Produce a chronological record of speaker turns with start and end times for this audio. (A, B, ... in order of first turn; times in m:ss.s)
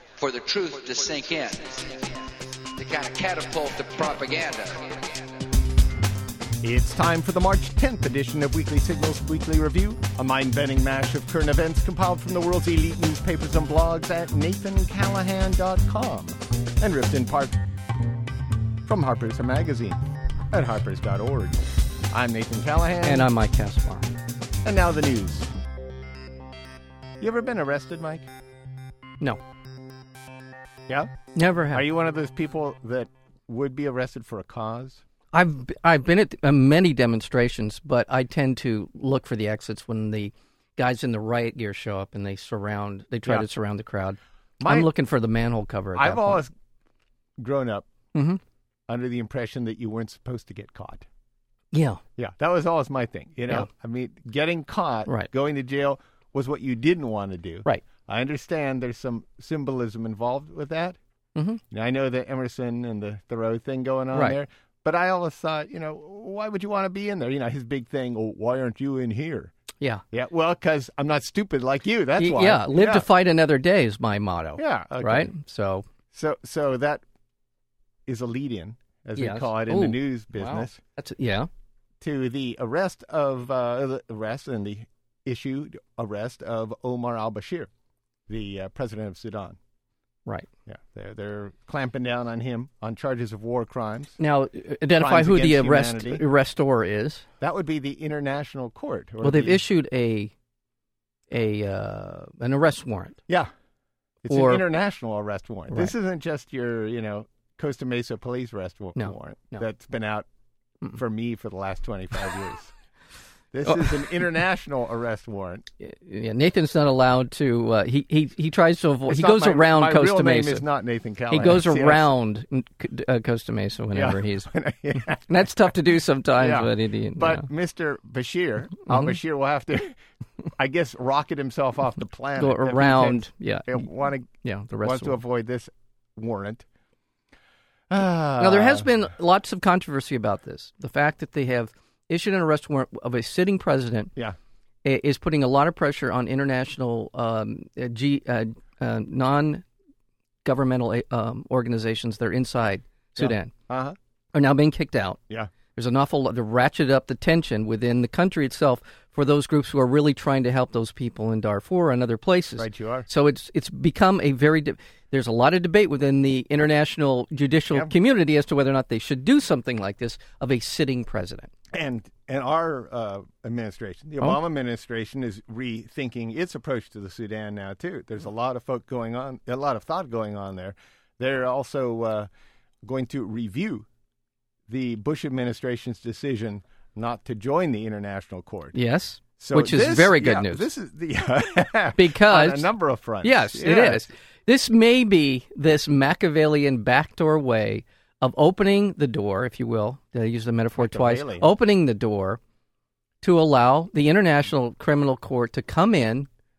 0:00.2-0:05.3 A
0:06.6-0:17.6 B
0:18.8-0:20.0 B
0:20.5-0:23.3 B
0:23.0-0:24.1 C
0:24.6-0:25.5 B
0:27.2-0:28.3 B
0:31.3-0:31.8 C
0:31.7-0:35.0 B
0:35.3-0:46.4 C
0:44.6-0:44.9 B
0:46.0-0:46.5 B
0:47.4-0:47.9 B
0:48.1-0:48.4 C
0:48.9-0:51.1 B
0:51.7-0:52.0 C
0:52.2-1:01.0 B
1:01.7-1:09.5 B
1:10.1-1:13.1 B
1:12.2-1:15.8 C
1:14.6-1:15.3 B
1:16.1-1:17.0 B
1:18.0-1:20.8 B
1:19.2-1:21.5 C
1:22.0-1:27.7 B
1:28.3-1:29.6 B
1:30.7-1:34.2 B
1:34.2-1:37.2 C
1:35.0-1:36.2 B
1:37.4-1:39.6 B
1:39.2-1:40.3 C
1:41.3-1:43.2 C
1:44.2-1:50.2 B
1:44.3-1:44.6 C
1:49.0-1:49.6 C
1:50.9-1:52.7 B
1:53.5-1:55.6 B
1:53.6-1:54.1 C
1:55.8-2:00.6 C
1:59.1-2:02.1 B
2:01.3-2:07.4 C
2:03.9-2:05.7 B
2:06.4-2:10.0 B
2:10.6-2:14.3 B
2:12.4-2:15.2 C
2:14.8-2:16.6 B
2:17.9-2:18.9 B
2:18.4-2:24.1 C
2:24.8-2:29.6 C
2:30.4-2:33.5 C
2:33.2-2:34.0 B
2:34.3-2:35.2 C
2:35.7-2:51.5 C
2:42.6-2:43.1 B
2:51.7-3:02.3 B
3:02.8-3:03.9 B
3:04.7-3:08.7 B
3:08.7-3:10.6 C
3:09.4-3:14.1 B
3:12.0-3:12.7 C
3:13.2-3:22.4 C
3:20.8-3:21.5 B
3:23.2-3:26.3 C